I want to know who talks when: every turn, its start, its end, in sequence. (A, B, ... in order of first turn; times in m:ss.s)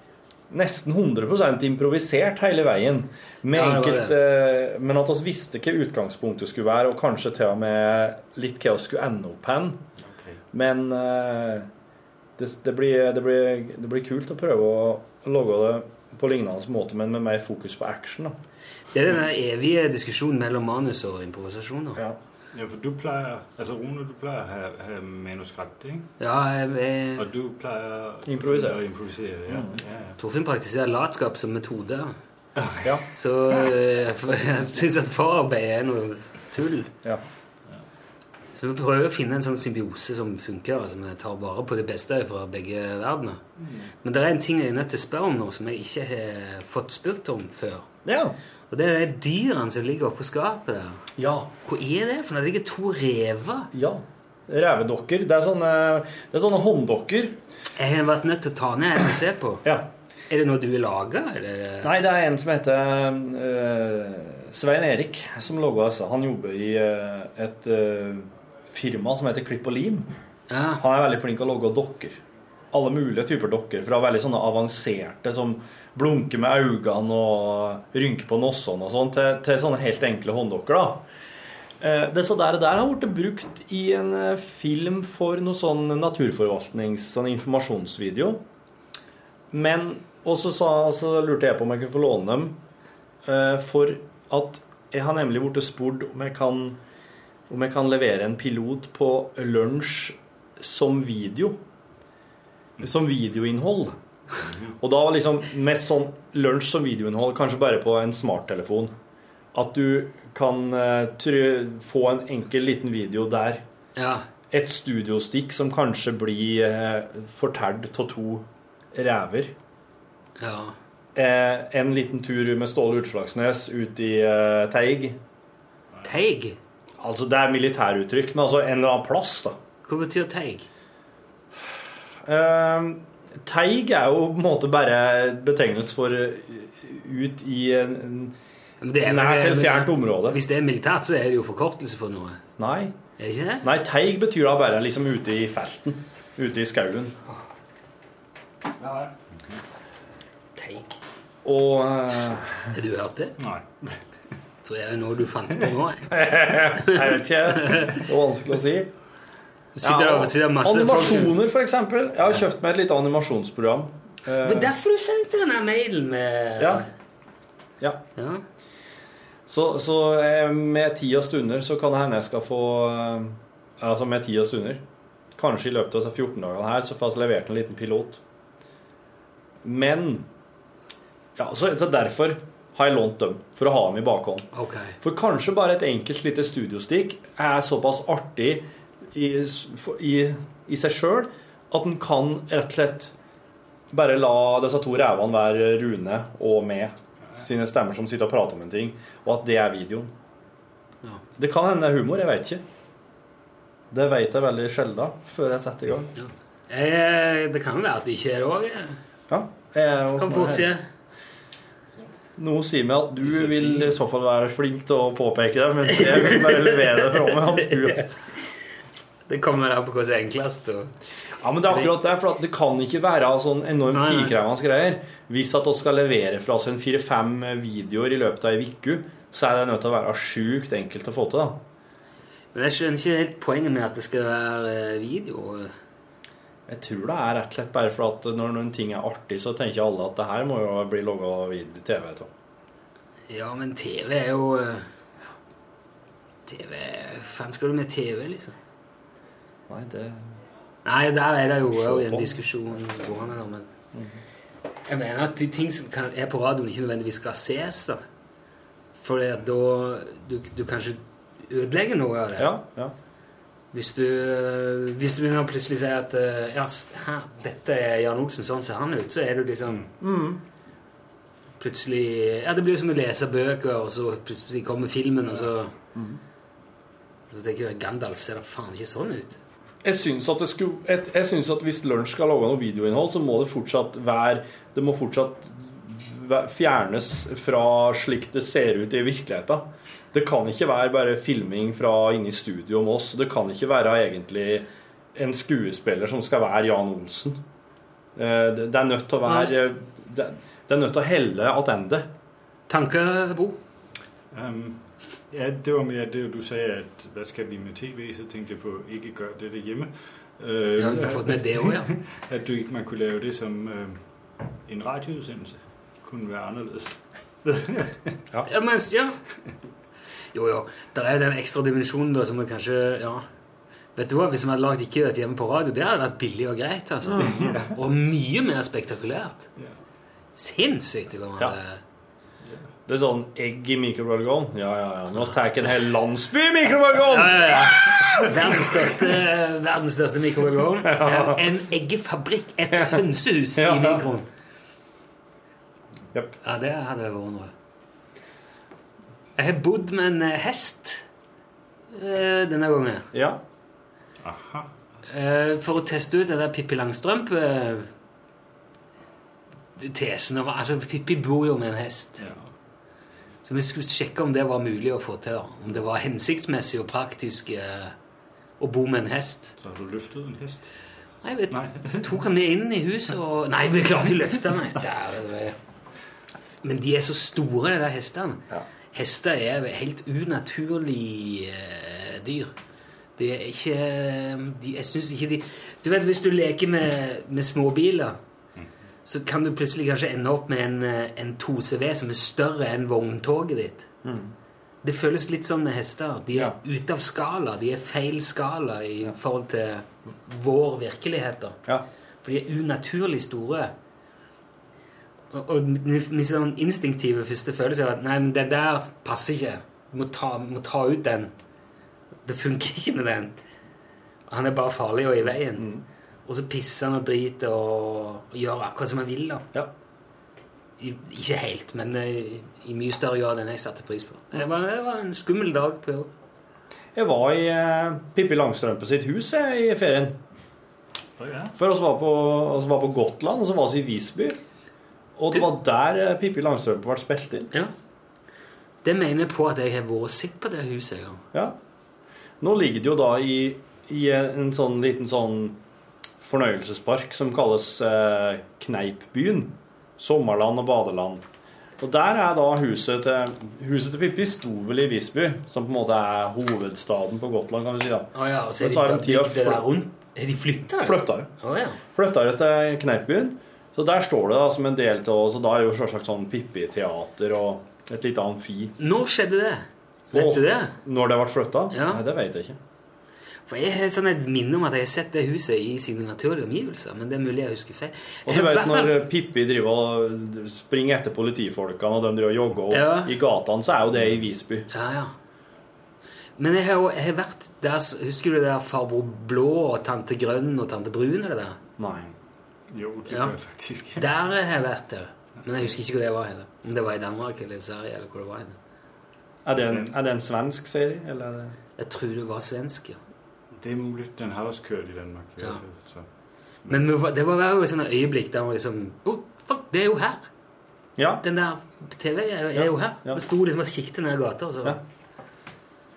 0:00.5-0:09.8 A
0:03.5-0:04.1 B
0:10.0-0:10.4 C
0:10.5-0:11.7 A
0:12.4-0:18.3 A
0:18.9-0:22.0 B
0:22.5-0:26.1 C
0:26.2-0:27.2 B
0:27.2-0:30.2 C
0:28.2-0:28.8 A
0:29.5-0:29.8 A
0:30.2-0:32.1 B
0:32.6-0:32.9 C
0:33.1-0:36.9 B
0:38.5-0:43.4 B
0:44.0-0:47.8 B
0:48.0-0:48.3 A
0:48.7-0:51.0 B
0:51.2-0:51.5 A
0:51.6-0:53.7 B
0:53.7-0:57.4 A
0:57.8-0:59.6 B
1:00.3-1:01.9 B
1:01.8-1:10.1 A
1:10.5-1:10.8 B
1:10.8-1:12.2 A
1:12.7-1:21.0 A
1:21.8-1:28.4 A
1:29.5-1:32.6 A
1:33.2-1:36.8 A
1:37.5-1:41.6 A
1:42.8-1:43.9 A
1:44.8-1:48.9 A
1:49.5-1:53.6 A
1:54.0-1:54.2 B
1:54.5-1:59.5 A
2:00.4-2:00.8 B
2:01.1-2:05.2 A
2:06.0-2:06.6 B
2:07.0-2:09.6 A
2:09.8-2:10.7 B
2:11.7-2:18.3 A
2:18.8-2:22.4 B
2:19.0-2:20.4 A
2:22.6-2:22.9 A
2:23.2-2:23.7 B
2:23.6-2:27.2 A
2:28.8-2:29.1 B
2:30.6-2:31.0 B
2:31.4-2:32.7 A
2:32.7-2:33.4 B
2:33.4-2:34.0 C
2:34.6-2:38.0 B
2:36.1-2:38.9 A
2:39.8-2:41.4 B
2:39.8-2:44.7 A
2:44.4-2:46.9 B
2:46.6-2:46.8 A
2:48.2-2:48.4 B
2:49.5-2:54.8 A
2:55.4-2:58.2 A
2:59.6-3:00.2 A
3:01.4-3:04.5 A
3:04.5-3:05.0 B
3:05.0-3:13.1 A
3:13.9-3:20.1 A
3:21.4-3:22.6 A
3:23.9-3:26.1 A
3:26.2-3:29.0 B
3:29.3-3:30.7 A
3:30.2-3:30.8 B
3:32.4-3:38.1 A
3:33.4-3:33.9 C
3:35.9-3:38.1 B
3:39.3-3:40.9 B
3:41.4-3:51.6 A
3:43.9-3:44.3 B
3:52.5-3:55.7 B
3:56.7-4:02.3 A
4:03.3-4:04.9 B
4:06.5-4:08.5 B
4:09.7-4:10.3 A
4:10.8-4:13.7 B
4:11.7-4:12.4 A
4:14.9-4:18.0 B
4:19.0-4:22.5 B
4:22.4-4:22.9 A
4:23.7-4:29.9 B
4:30.0-4:30.4 A
4:31.6-4:35.7 B
4:35.9-4:36.2 A
4:37.3-4:39.4 B
4:39.8-4:57.4 A
4:58.2-5:02.1 A
4:59.3-4:59.5 B
5:02.7-5:03.6 B
5:04.3-5:14.0 C
5:10.8-5:11.9 B
5:14.6-5:18.1 C
5:18.4-5:19.2 B
5:20.3-5:23.2 B
5:23.9-5:29.5 B
5:27.1-5:27.5 A
5:27.2-5:27.7 C
5:30.3-5:31.8 B
5:32.9-5:38.6 A
5:37.1-5:44.3 B
5:40.8-5:41.4 A
5:43.6-5:44.0 A
5:46.4-5:47.5 B
5:49.4-5:51.0 B
5:51.9-5:53.1 B
5:53.1-5:53.4 A
5:54.2-5:54.7 C
5:55.0-5:57.9 B
5:59.8-6:02.2 B
6:03.4-6:07.9 B
6:08.6-6:09.5 B
6:09.6-6:10.7 C
6:11.2-6:15.6 B
6:11.5-6:12.2 C
6:16.6-6:18.4 B
6:18.9-6:22.5 B
6:23.2-6:28.2 B
6:29.0-6:33.9 B
6:34.0-6:34.3 A
6:34.8-6:41.6 B
6:42.2-6:43.7 B
6:45.3-6:51.3 B
6:52.2-6:53.3 B
6:54.3-6:55.7 B
6:55.6-6:55.8 A
6:56.2-6:59.4 B
7:00.8-7:06.1 B
7:06.9-7:10.2 A
7:11.2-7:11.5 C
7:11.6-7:14.4 A
7:15.2-7:17.5 A
7:18.8-7:21.2 B
7:22.4-7:25.6 A
7:26.2-7:31.2 A
7:31.8-7:39.7 A
7:38.1-7:41.8 B
7:40.8-7:41.3 A
7:41.9-7:48.7 A
7:48.8-7:50.7 B
7:50.1-7:52.6 A
7:51.7-7:52.0 B
7:53.5-7:59.0 B
7:58.2-8:04.7 A
8:02.7-8:03.1 B
8:04.7-8:05.1 B
8:06.4-8:11.6 B
8:11.8-8:12.1 A
8:12.7-8:14.1 C
8:13.1-8:13.3 B
8:14.0-8:18.6 B
8:19.4-8:21.6 A
8:19.6-8:19.9 C
8:21.8-8:23.0 B
8:23.6-8:26.1 C
8:26.7-8:30.2 B
8:31.0-8:31.2 A
8:31.2-8:34.8 B
8:32.6-8:33.2 A